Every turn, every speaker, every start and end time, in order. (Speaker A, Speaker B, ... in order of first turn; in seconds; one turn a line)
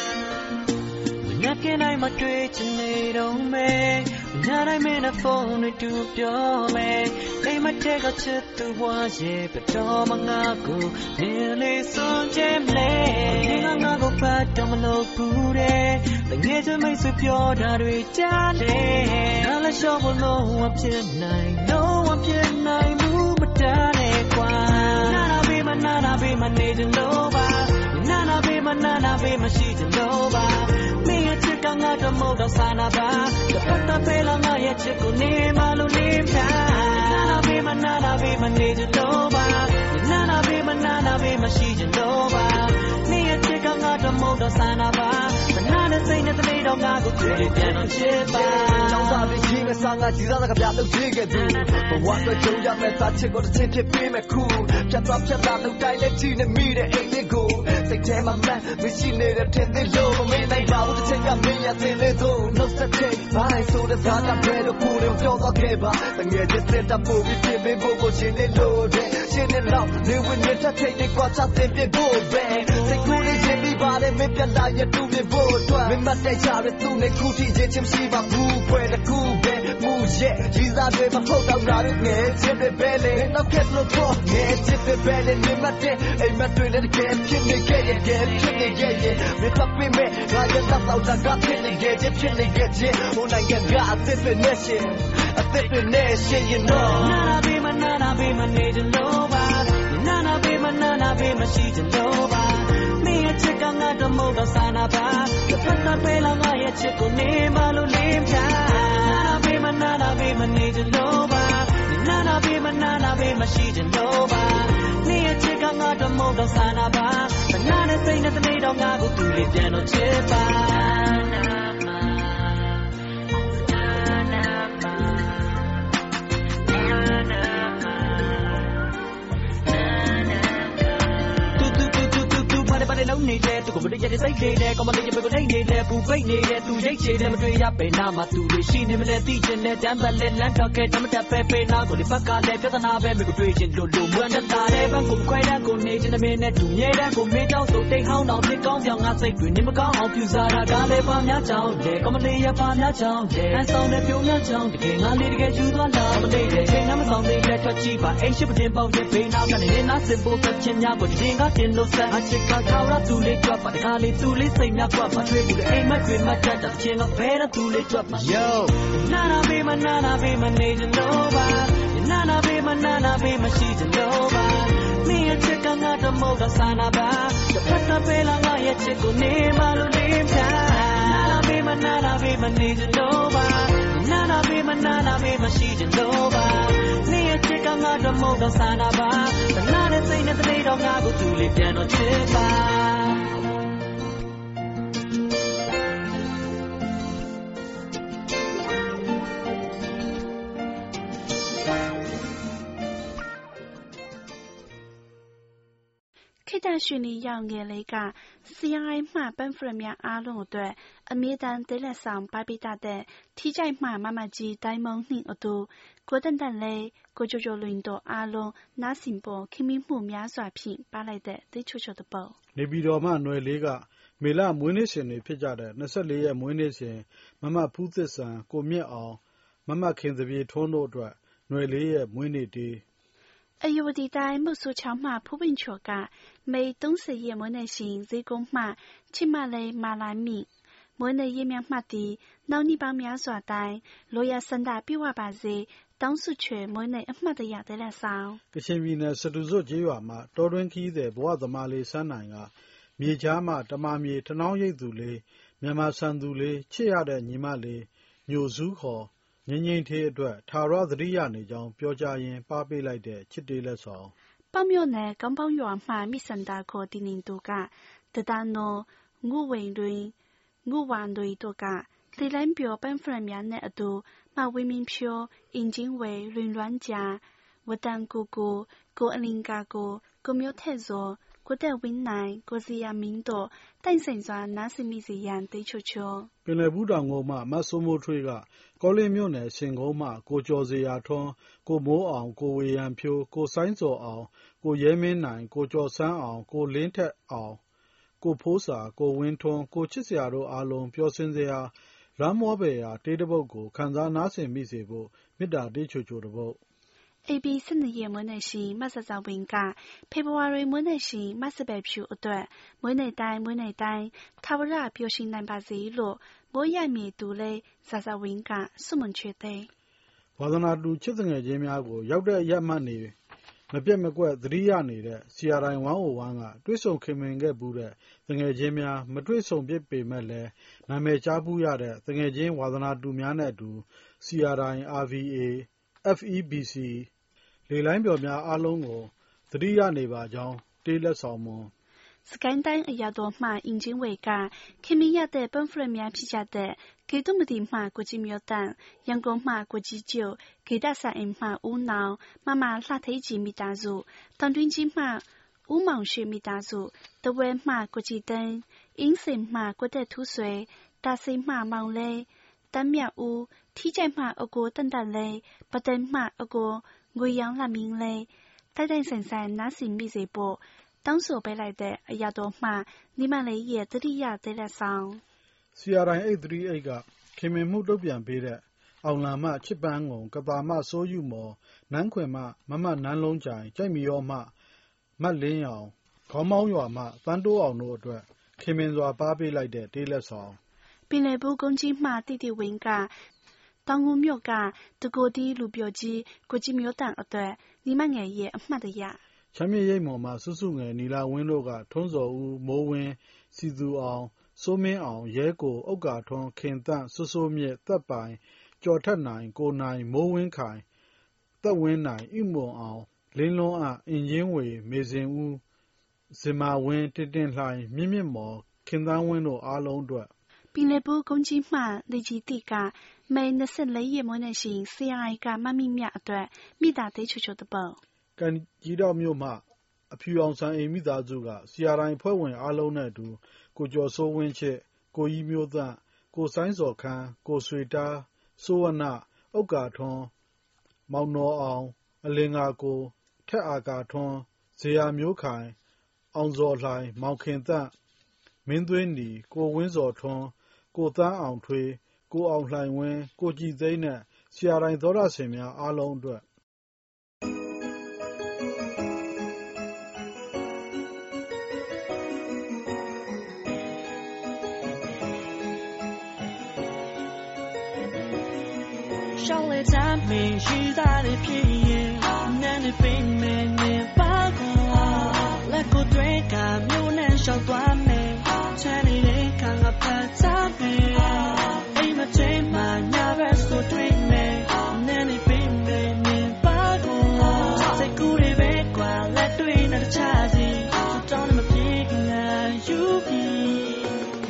Speaker A: 1.2-49.3
Speaker B: 47.5-97.3
Speaker A: 96.9-122.3
Speaker A: 123.7-125.1
Speaker A: 126.8-128.1
Speaker A: 131.5-193.3
Speaker C: 206.5-222.4
Speaker D: 222.6-232.8
Speaker C: 233.6-248.4
Speaker D: 248.5-264.1
Speaker C: 264.5-270.1
Speaker C: 270.6-286.3
Speaker D: 286.4-297.6
Speaker D: 298.2-306.6
Speaker C: 307.3-319.7
Speaker D: 320.4-323.1
Speaker D: 323.7-337.1
Speaker D: 337.7-341.7
Speaker C: 342.3-375.2
Speaker D: 375.8-384.5
Speaker D: 385.2-390.6
Speaker C: 391.1-393.1
Speaker C: 393.9-399.2
Speaker D: 399.5-410.9
Speaker D: 411.6-415.6
Speaker D: 416.3-420.3
Speaker C: 420.7-428.0
Speaker D: 428.4-440.3
Speaker D: 441.1-445.8
Speaker D: 446.3-447.9
Speaker D: 448.6-456.4
Speaker E: 469.4-494.3